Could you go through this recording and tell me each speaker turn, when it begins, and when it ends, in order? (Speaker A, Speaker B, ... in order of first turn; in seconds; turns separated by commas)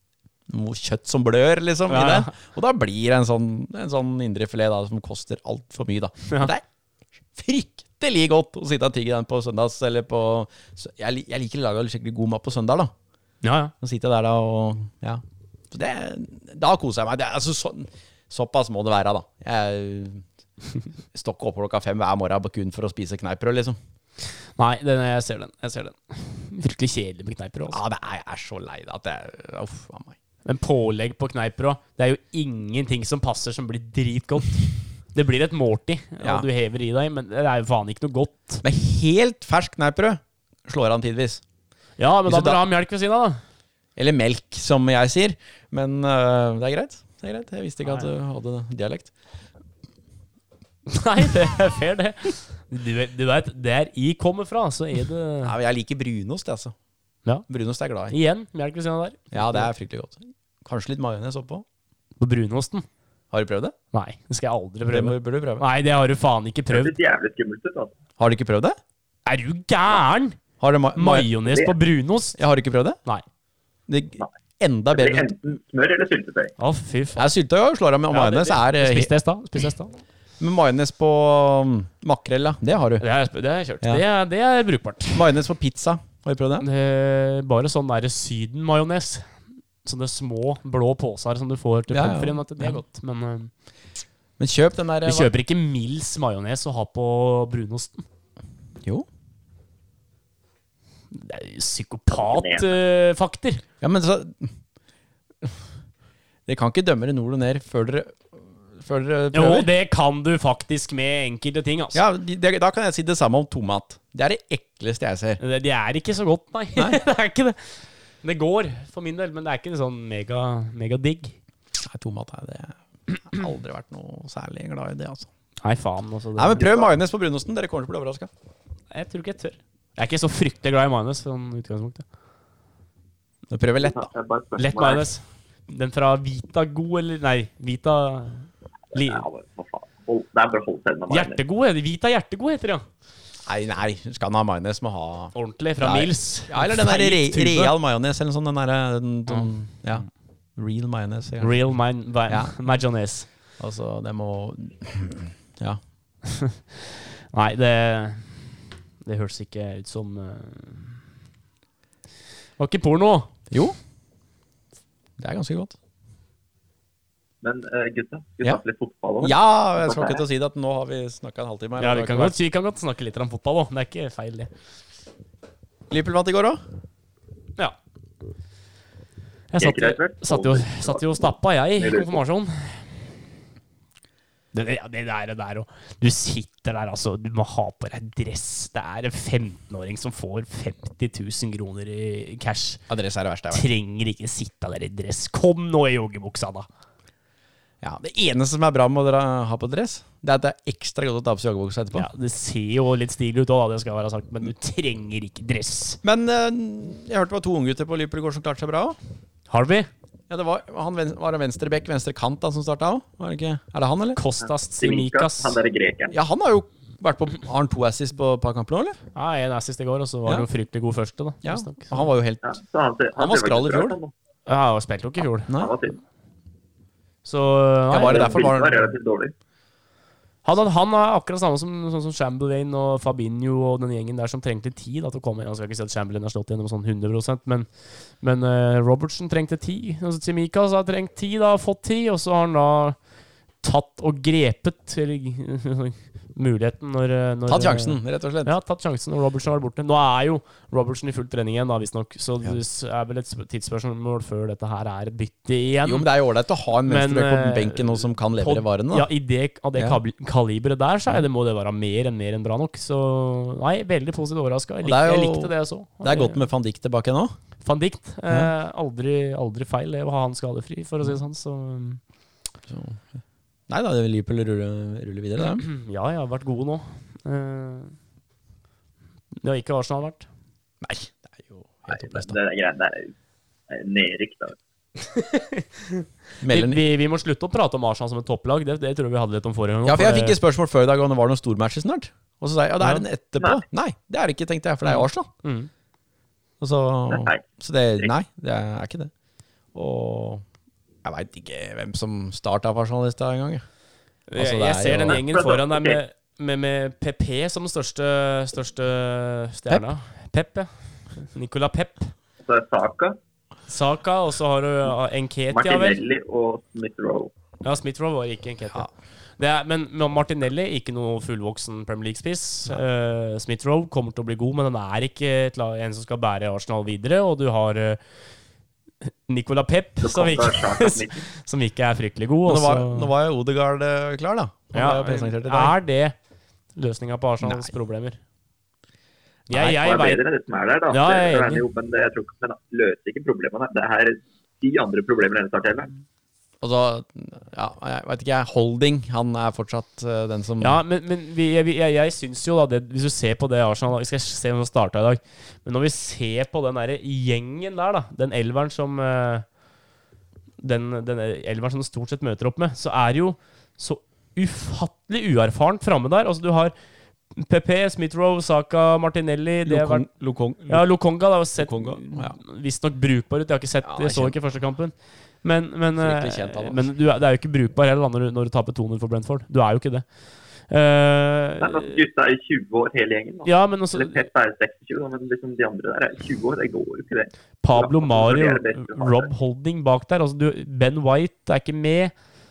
Speaker A: 0.5-6.6, Speaker B: 1.9-2.3, Speaker A: 7.3-12.9, Speaker B: 13.4-13.7, Speaker A: 13.8-20.2, Speaker A: 21.1-23.8, Speaker B: 24.3-27.8, Speaker A: 27.7-30.2, Speaker B: 30.4-38.6, Speaker A: 36.2-36.5, Speaker A: 38.6-41.4, Speaker B: 42.0-43.4, Speaker A: 42.3-42.6, Speaker A: 44.0-49.1, Speaker B: 50.9-55.5, Speaker A: 55.4-56.7, Speaker A: 57.5-58.1, Speaker B: 58.1-59.7, Speaker A: 59.3-61.6, Speaker B: 62.2-62.9, Speaker A: 63.3-63.8, Speaker B: 63.9-66.9, Speaker A: 64.9-65.7, Speaker C: 66.7-68.0, Speaker A: 68.2-68.8, Speaker B: 69.3-70.4, Speaker A: 70.6-71.3, Speaker B: 71.0-72.4, Speaker C: 71.5-71.7, Speaker A: 72.4-73.0, Speaker A: 73.9-75.3, Speaker C: 74.9-76.5, Speaker B: 76.6-77.3, Speaker A: 77.2-79.1, Speaker B: 78.1-80.0, Speaker A: 80.4-83.0, Speaker B: 83.0-85.2, Speaker A: 85.1-86.7, Speaker B: 86.6-93.5, Speaker A: 91.9-92.8, Speaker A: 94.4-95.3, Speaker B: 95.0-98.0, Speaker B: 101.1-103.6, Speaker C: 102.1-102.8, Speaker A: 103.8-104.5, Speaker A: 106.5-109.7, Speaker B: 109.3-112.0, Speaker A: 111.9-115.4, Speaker B: 115.4-121.4, Speaker A: 121.8-125.3, Speaker B: 125.6-126.9, Speaker A: 126.4-128.3, Speaker B: 128.9-132.1, Speaker A: 133.5-134.1, Speaker C: 133.8-135.1, Speaker B: 134.6-139.2, Speaker C: 138.9-141.4, Speaker B: 141.1-142.9, Speaker A: 143.5-150.1, Speaker B: 145.3-147.7, Speaker B: 149.3-150.1, Speaker A: 150.6-151.6, Speaker B: 151.4-153.3, Speaker A: 152.3-152.6, Speaker A: 153.6-155.8, Speaker B: 156.3-156.8, Speaker B: 157.3-161.0, Speaker B: 162.6-163.3, Speaker A: 163.5-163.8, Speaker A: 165.2-165.8, Speaker C: 167.4-170.2, Speaker A: 169.2-172.4, Speaker B: 171.8-174.5, Speaker A: 175.9-176.6, Speaker B: 179.5-182.8, Speaker C: 179.6-182.2, Speaker B: 184.5-192.8, Speaker A: 192.9-193.7, Speaker B: 193.5-196.7, Speaker A: 197.8-202.1, Speaker B: 201.9-206.0, Speaker A: 206.0-209.0, Speaker B: 209.5-209.9, Speaker A: 210.3-214.2, Speaker B: 214.2-215.6, Speaker C: 214.4-216.2, Speaker A: 216.1-219.0, Speaker B: 219.2-222.0, Speaker A: 221.4-222.5, Speaker C: 222.4-224.1, Speaker A: 223.2-224.0, Speaker B: 224.5-225.5, Speaker A: 225.5-225.8, Speaker C: 225.5-226.0, Speaker B: 227.2-228.5, Speaker A: 227.9-228.9, Speaker C: 227.9-229.3, Speaker B: 230.4-237.7, Speaker B: 238.2-243.0, Speaker B: 243.6-256.1, Speaker A: 247.5-248.5, Speaker A: 255.8-259.1, Speaker B: 256.9-266.4, Speaker A: 264.8-267.3, Speaker B: 267.6-272.0, Speaker A: 272.7-273.1, Speaker A: 273.7-275.7, Speaker B: 275.6-277.9, Speaker B: 279.4-280.3, Speaker A: 280.8-282.4, Speaker C: 281.9-283.1, Speaker C: 283.7-284.6, Speaker B: 285.0-290.4, Speaker A: 286.4-286.8, Speaker A: 289.9-295.3, Speaker B: 294.9-295.7, Speaker A: 296.6-299.1, Speaker C: 297.1-297.4, Speaker A: 299.7-300.4, Speaker A: 301.0-303.6, Speaker B: 304.3-312.1, Speaker A: 304.4-305.2, Speaker C: 305.1-306.0, Speaker C: 312.4-313.2, Speaker B: 313.7-316.0, Speaker C: 315.5-317.3, Speaker B: 317.6-328.0, Speaker B: 329.0-333.1, Speaker C: 330.0-331.3, Speaker A: 332.5-335.8, Speaker B: 334.7-336.1, Speaker B: 336.8-338.2, Speaker A: 337.4-337.7, Speaker B: 339.5-340.2, Speaker C: 339.6-345.9, Speaker B: 340.9-341.6, Speaker A: 346.6-350.8, Speaker B: 350.6-359.5, Speaker B: 360.6-366.7, Speaker B: 367.3-370.1, Speaker A: 369.6-370.9, Speaker B: 370.7-380.1, Speaker A: 371.6-372.4, Speaker A: 373.8-374.4, Speaker A: 376.0-376.8, Speaker B: 380.7-382.0, Speaker C: 381.6-389.3, Speaker B: 383.4-384.3, Speaker B: 387.6-392.1